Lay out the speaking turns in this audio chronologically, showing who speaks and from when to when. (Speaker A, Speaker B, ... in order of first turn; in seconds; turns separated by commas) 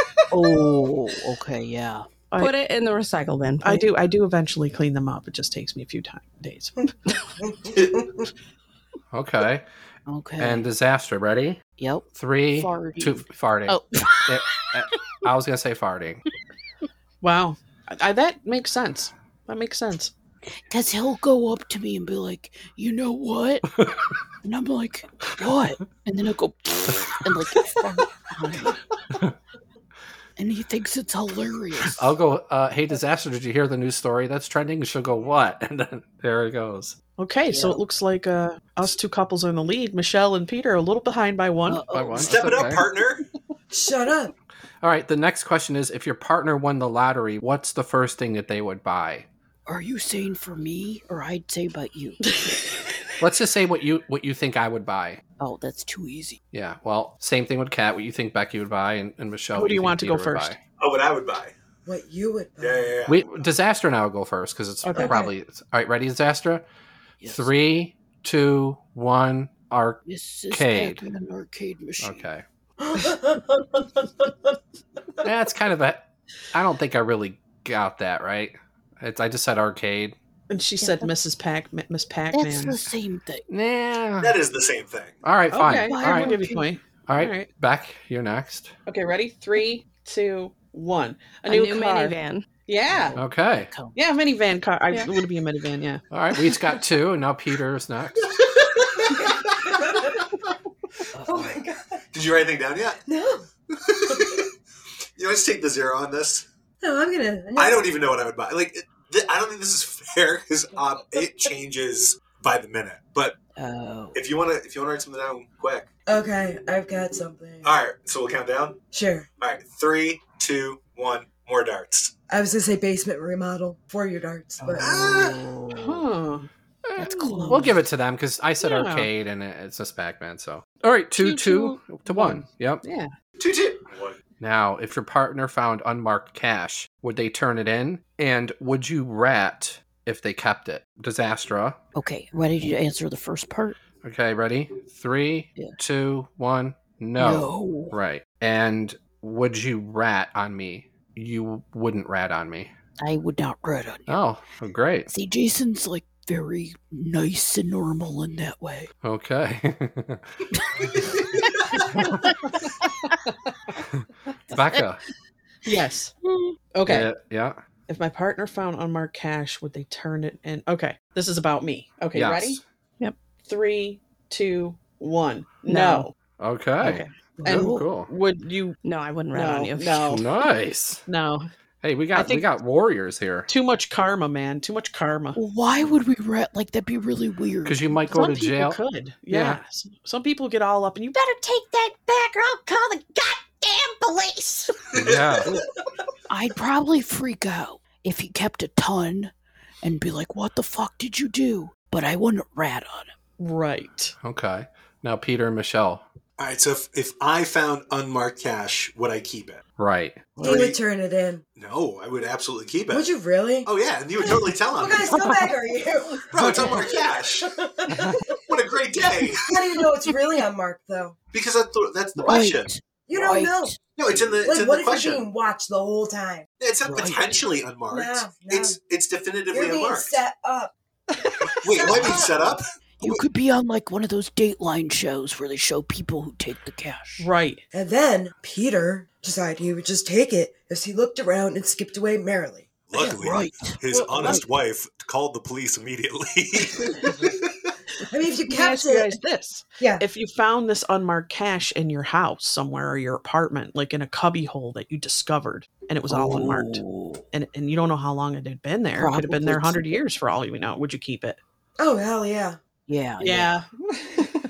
Speaker A: 0.3-2.1, Speaker B: 2.4-3.8, Speaker C: 3.6-6.8, Speaker D: 9.1-9.7, Speaker A: 10.1-10.7, Speaker D: 10.4-11.6, Speaker A: 11.8-14.3, Speaker D: 12.1-16.2, Speaker C: 17.2-20.1, Speaker A: 20.5-23.7, Speaker A: 24.4-28.8, Speaker A: 30.4-32.1, Speaker D: 31.9-37.0, Speaker C: 37.2-41.8, Speaker A: 37.5-37.8, Speaker A: 41.6-42.4, Speaker D: 41.9-42.8, Speaker E: 42.2-43.2, Speaker F: 43.7-44.3, Speaker D: 44.8-49.2, Speaker A: 49.6-52.2, Speaker D: 53.2-55.2, Speaker A: 55.4-56.4, Speaker D: 56.5-60.6, Speaker C: 59.5-60.6, Speaker E: 60.8-61.5, Speaker F: 61.9-62.9, Speaker E: 62.6-63.4, Speaker D: 63.1-66.6, Speaker C: 64.8-65.2, Speaker F: 65.0-65.3, Speaker A: 67.2-67.5, Speaker D: 67.2-71.0, Speaker A: 70.0-72.2, Speaker D: 72.0-72.4, Speaker F: 72.8-74.3, Speaker D: 75.2-80.2, Speaker C: 80.5-82.8, Speaker A: 80.8-81.1, Speaker A: 82.3-83.4, Speaker D: 83.5-84.3, Speaker E: 84.2-85.2, Speaker D: 85.2-86.3, Speaker C: 85.5-87.5, Speaker A: 85.6-86.7, Speaker D: 87.1-88.7, Speaker C: 88.8-93.2, Speaker B: 91.5-92.5, Speaker A: 92.9-94.0, Speaker D: 93.2-93.7, Speaker C: 93.9-96.0, Speaker D: 96.1-98.3, Speaker F: 99.7-100.1, Speaker A: 101.1-101.6, Speaker F: 101.3-102.0, Speaker E: 102.1-103.0, Speaker F: 103.1-103.5, Speaker E: 103.7-104.5, Speaker E: 105.2-106.5, Speaker F: 106.8-107.9, Speaker E: 107.5-113.3, Speaker A: 113.5-114.2, Speaker E: 114.1-115.9, Speaker F: 116.1-117.8, Speaker E: 117.6-118.8, Speaker F: 118.9-119.3, Speaker E: 119.4-122.1, Speaker F: 122.3-125.0, Speaker A: 124.6-126.0, Speaker E: 124.8-125.4, Speaker C: 125.8-126.5, Speaker A: 127.0-127.8, Speaker C: 127.0-127.7, Speaker D: 127.5-132.8, Speaker C: 128.6-129.1, Speaker C: 131.2-133.1, Speaker E: 133.4-134.2, Speaker D: 134.4-141.8, Speaker A: 141.9-143.8, Speaker D: 144.0-152.7, Speaker A: 147.2-147.9, Speaker A: 153.0-154.2, Speaker D: 154.1-155.1, Speaker A: 155.1-158.9, Speaker D: 159.0-160.2, Speaker D: 164.5-165.0, Speaker C: 165.7-166.1, Speaker C: 166.7-167.1, Speaker D: 166.8-167.6, Speaker C: 167.9-172.6, Speaker D: 172.1-172.6, Speaker C: 173.4-176.1, Speaker B: 175.7-176.1, Speaker D: 176.4-178.1, Speaker C: 176.8-178.8, Speaker A: 177.4-177.8, Speaker B: 178.8-180.1, Speaker C: 179.3-180.2, Speaker D: 180.1-181.0, Speaker C: 181.1-181.5, Speaker D: 181.8-183.5, Speaker C: 182.1-182.4, Speaker C: 183.5-185.4, Speaker A: 185.3-188.5, Speaker D: 187.7-188.8, Speaker C: 188.1-191.3, Speaker G: 191.4-194.6, Speaker E: 194.9-195.2, Speaker D: 194.9-195.5, Speaker A: 196.3-203.1, Speaker C: 203.4-204.1, Speaker D: 204.2-206.0, Speaker E: 206.4-209.6, Speaker D: 209.8-210.3, Speaker E: 210.4-210.8, Speaker F: 210.4-211.4, Speaker E: 211.6-213.1, Speaker F: 212.9-213.7, Speaker E: 213.7-215.2, Speaker F: 214.2-218.2, Speaker E: 216.3-217.5, Speaker E: 218.5-219.6, Speaker F: 219.0-221.2, Speaker E: 221.3-222.7, Speaker A: 222.2-223.8, Speaker F: 223.1-223.8, Speaker E: 223.8-225.3, Speaker F: 224.4-226.5, Speaker E: 226.6-230.2, Speaker A: 226.8-227.4, Speaker F: 227.9-228.8, Speaker F: 229.5-230.7, Speaker E: 231.6-233.2, Speaker F: 232.0-232.2, Speaker A: 233.0-237.3, Speaker C: 237.2-237.6, Speaker F: 237.7-242.7, Speaker E: 242.9-247.7, Speaker A: 243.0-244.5, Speaker F: 248.1-249.2, Speaker C: 248.5-261.4, Speaker A: 256.1-257.2, Speaker A: 258.9-260.0, Speaker F: 261.8-262.6, Speaker A: 262.9-263.5, Speaker C: 263.2-264.3